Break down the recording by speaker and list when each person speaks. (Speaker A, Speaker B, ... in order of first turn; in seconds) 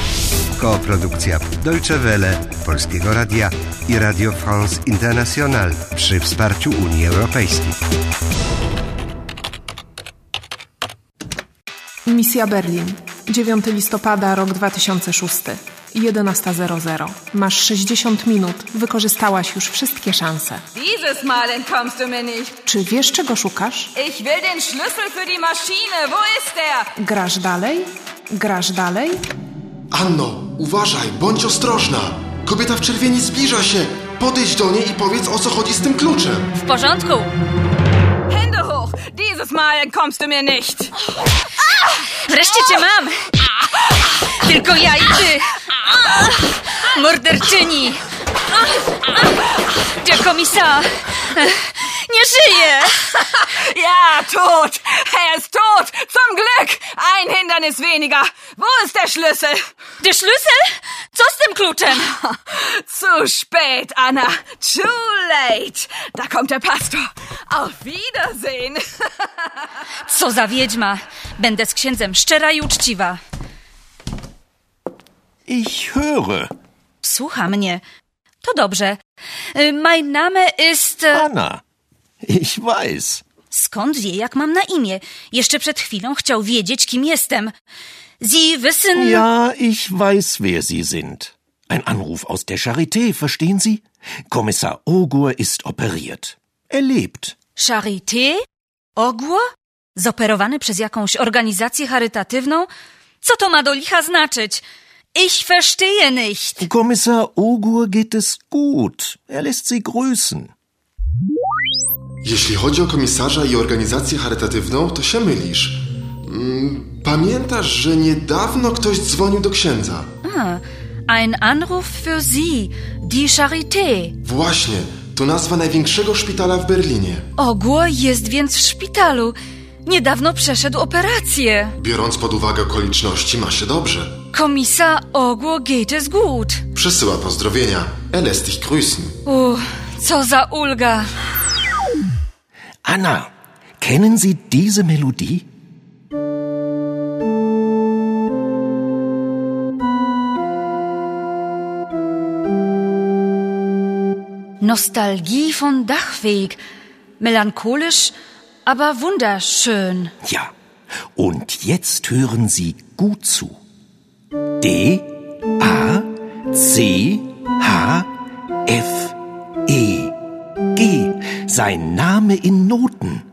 Speaker A: 0.6-7.8
Speaker B: 12.1-20.6, 22.6-23.9, 27.0-29.2
Speaker C: 20.8-22.6, 24.0-26.9, 38.3-40.9, 53.6-59.6, 62.5-69.3
Speaker D: 29.9-36.5, 112.2-120.1, 124.2-127.3, 131.8-134.2, 136.7-139.2
Speaker E: 36.5-37.3, 42.2-43.1, 44.4-48.0, 49.8-53.1, 60.0-62.1, 70.1-73.2, 77.0-77.8, 78.4-79.0, 79.5-81.3, 83.5-87.5, 88.2-89.2, 97.6-98.4, 99.0-99.4, 100.0-102.7, 103.2-106.7, 120.2-124.2, 127.4-131.7, 134.3-136.6, 139.2-141.1, 154.6-156.6, 157.2-158.1, 158.7-160.1
Speaker F: 75.5-76.5, 81.1-81.6, 82.2-83.2, 88.9-97.4, 106.6-110.5, 142.8-145.5, 160.2-160.5, 161.1-163.6, 164.6-168.1, 168.7-170.1, 170.8-173.2